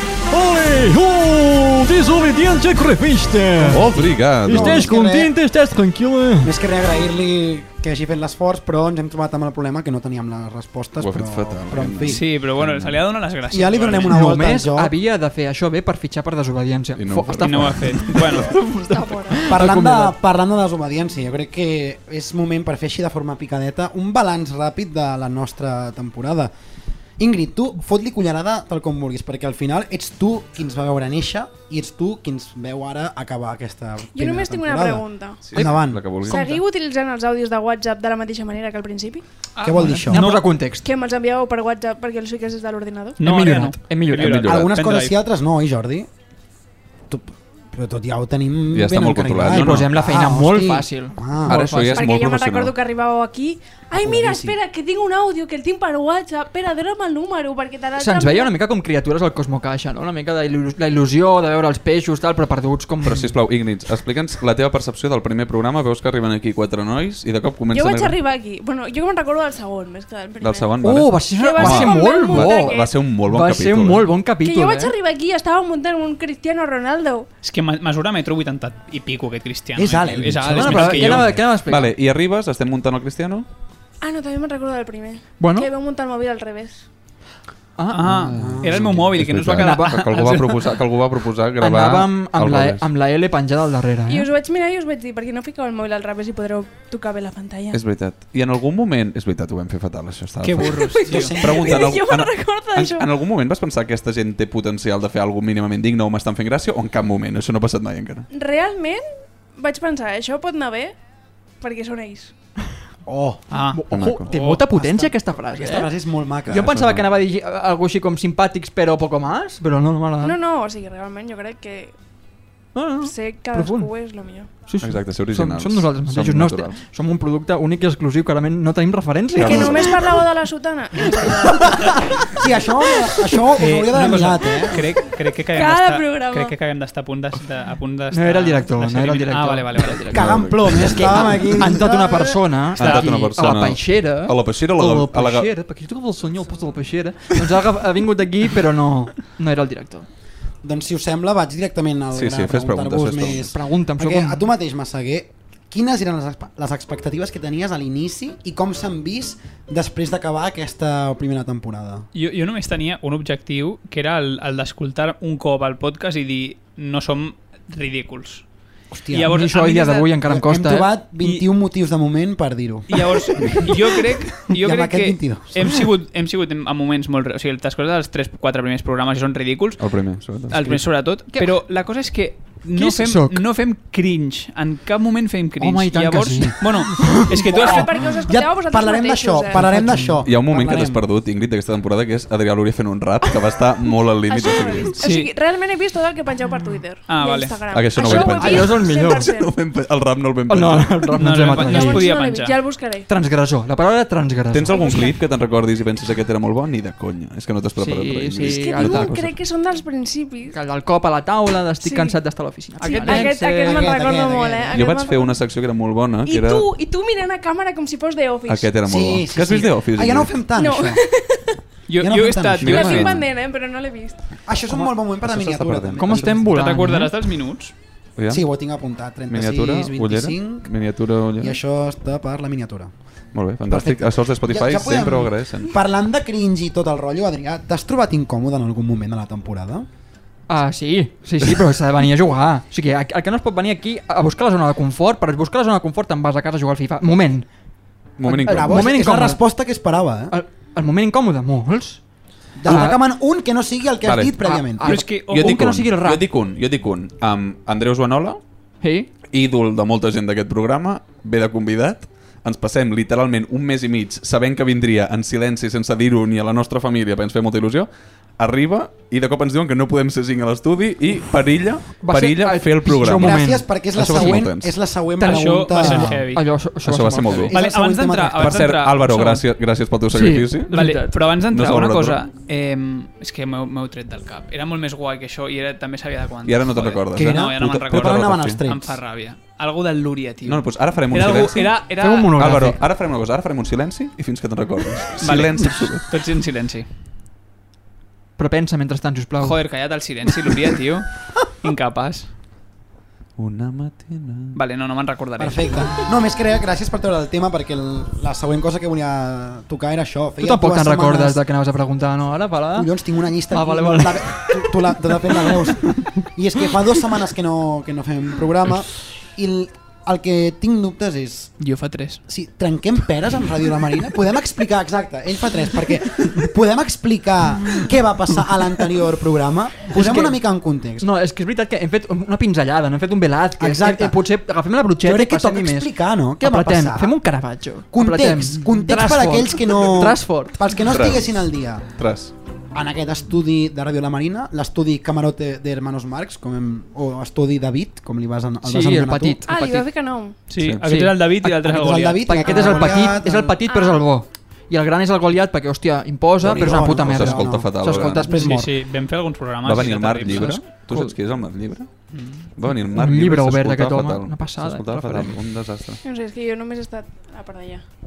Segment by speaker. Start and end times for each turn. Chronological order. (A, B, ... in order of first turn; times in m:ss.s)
0:00.3-0:06.5 A
0:03.7-0:04.9 B
0:03.7-0:05.3 C
0:06.4-0:12.2 C
0:11.0-0:13.0 B
0:12.0-0:14.1 D
0:13.5-0:14.9 C
0:14.1-0:20.2 A
0:17.0-0:18.2 B
0:17.4-0:18.5 D
0:18.9-0:19.5 E
0:19.5-0:26.5 C
0:27.2-0:36.3 C
0:34.1-0:35.7 E
0:35.5-0:36.6 B
0:36.2-0:39.2 E
0:39.6-0:40.4 D
0:39.6-0:40.2 C
0:39.9-0:40.9 A
0:40.8-0:43.2 E
0:43.2-0:45.2 D
0:43.2-0:44.4 A
0:44.1-0:44.7 B
0:44.5-0:46.1 C
0:47.1-0:51.6 C
0:48.7-0:49.9 B
0:49.5-0:52.1 A
0:51.5-0:52.8 B
0:51.8-0:58.5 E
0:53.9-0:54.6 C
0:58.0-1:03.3 A
1:03.0-1:08.2 B
1:07.7-1:10.7 E
1:10.4-1:14.2 B
1:10.8-1:15.0 A
1:11.3-1:12.9 E
1:14.4-1:17.3 E
1:17.4-1:21.3 D
1:19.8-1:21.4 C
1:20.5-1:21.9 A
1:21.3-1:23.5 B
1:24.0-1:26.8 E
1:25.4-1:25.7 A
1:27.8-1:28.2 A
1:27.9-1:30.6 D
1:28.3-1:29.2 C
1:28.4-1:32.9 B
1:29.6-1:30.4 A
1:31.6-1:34.3 A
1:34.1-1:37.8 E
1:37.7-1:48.3 B
1:40.4-1:42.0 C
1:40.6-1:41.4 D
1:40.9-1:43.1 E
1:48.3-1:49.0 E
1:49.6-1:51.0 E
1:51.6-1:52.3 E
1:53.1-1:53.4 C
1:53.5-1:54.6 D
1:53.7-1:55.9 A
1:53.9-1:54.3 B
1:54.7-1:56.9 C
1:56.5-2:00.4 A
1:56.5-1:57.0 B
2:00.2-2:01.9 E
2:02.8-2:03.9 A
2:03.0-2:04.5 E
2:04.7-2:09.8 A
2:04.8-2:06.8 B
2:09.4-2:10.2 B
2:09.4-2:12.1 E
2:12.3-2:14.9 C
2:13.6-2:20.1 D
2:15.5-2:16.5 E
2:18.1-2:30.1 A
2:20.1-2:21.4 B
2:20.1-2:22.4 C
2:22.8-2:25.5 B
2:22.8-2:23.1 D
2:30.6-2:42.1 C
2:32.1-2:33.5 B
2:33.4-2:34.5 A
2:42.1-2:48.4 D
2:48.9-2:49.4 C
2:49.1-2:50.1 D
2:49.2-2:50.9 A
2:50.2-2:55.7 C
2:51.2-2:51.5 D
2:52.9-3:08.0 D
2:59.8-3:00.8 B
3:02.7-3:03.4 A
3:05.6-3:07.3 A
3:07.5-3:09.6 E
3:07.6-3:11.0 C
3:09.5-3:10.2 A
3:10.2-3:15.0 B
3:14.3-3:19.5 E
3:15.0-3:15.3 D
3:17.1-3:17.6 D
3:17.7-3:21.2 B
3:18.0-3:19.3 A
3:20.5-3:22.1 A
3:21.2-3:22.6 D
3:21.6-3:23.1 E
3:23.1-3:24.8 A
3:24.5-3:29.4 B
3:24.7-3:25.2 E
3:27.8-3:29.1 A
3:28.4-3:30.6 E
3:30.5-3:33.9 A
3:31.8-3:32.2 E
3:32.8-3:33.3 D
3:32.8-3:35.4 E
3:33.6-3:34.8 C
3:34.7-3:36.7 B
3:36.2-3:38.8 E
3:38.5-3:40.4 B
3:38.9-3:41.0 C
3:40.6-3:41.6 E
3:41.9-3:43.1 D
3:42.0-3:43.1 C
3:42.6-3:43.3 B
3:42.6-3:44.2 E
3:44.5-3:46.5 C
3:45.2-3:46.5 B
3:46.0-3:47.1 A
3:46.5-3:47.7 D
3:48.2-3:48.4 B
3:48.3-3:50.7 C
3:49.3-3:51.6 B
3:51.4-3:52.9 C
3:53.3-3:55.7 B
3:53.7-3:59.9 C
4:00.5-4:07.5 A
4:08.2-4:08.9 B
4:08.3-4:09.4 A
4:08.4-4:10.4 C
4:10.3-4:12.0 A
4:12.6-4:15.0 C
4:12.6-4:13.0 A
4:14.0-4:14.4 B
4:14.4-4:16.2 A
4:14.8-4:15.7 D
4:15.3-4:18.4 B
4:18.8-4:19.1 A
4:19.3-4:34.8 B
4:32.0-4:34.5 A
4:33.0-4:36.3 C
4:35.2-4:37.5 A
4:35.2-4:36.4 D
4:36.8-4:37.6 B
4:37.5-4:38.7 C
4:37.5-4:39.4 D
4:38.4-4:40.8 B
4:40.1-4:41.1 A
4:40.7-4:52.3 D
4:41.5-4:42.2 B
4:46.4-4:48.6 B
4:47.1-4:49.0 C
4:50.4-4:51.8 B
4:52.0-4:52.8 A
4:52.4-4:56.1 B
4:55.2-4:56.9 D
4:58.4-4:59.6 A
4:59.4-5:02.3 D
5:03.4-5:04.6 B
5:04.6-5:05.9 D
5:05.4-5:11.4 C
5:10.4-5:12.9 A
5:12.7-5:21.5 C
5:13.5-5:14.7 A
5:21.6-5:22.2 D
5:22.3-5:31.1 C
5:29.9-5:30.4 A
5:31.0-5:40.6 A
5:33.6-5:34.2 C
5:35.0-5:37.2 C
5:37.9-5:41.9 C
5:40.9-5:42.3 B
5:42.7-5:49.4 C
5:48.6-5:49.9 A
5:49.5-5:50.4 E
5:50.5-5:52.8 D
5:50.6-5:50.8 B
5:50.8-5:51.6 A
5:51.6-5:53.6 C
5:52.3-5:58.7 A
5:53.7-5:54.1 E
5:56.4-5:58.7 C
5:56.5-5:58.4 B
5:58.3-6:00.6 D
5:59.6-6:01.9 B
6:00.3-6:01.1 A
6:02.6-6:06.0 B
6:02.9-6:05.4 A
6:06.0-6:07.8 E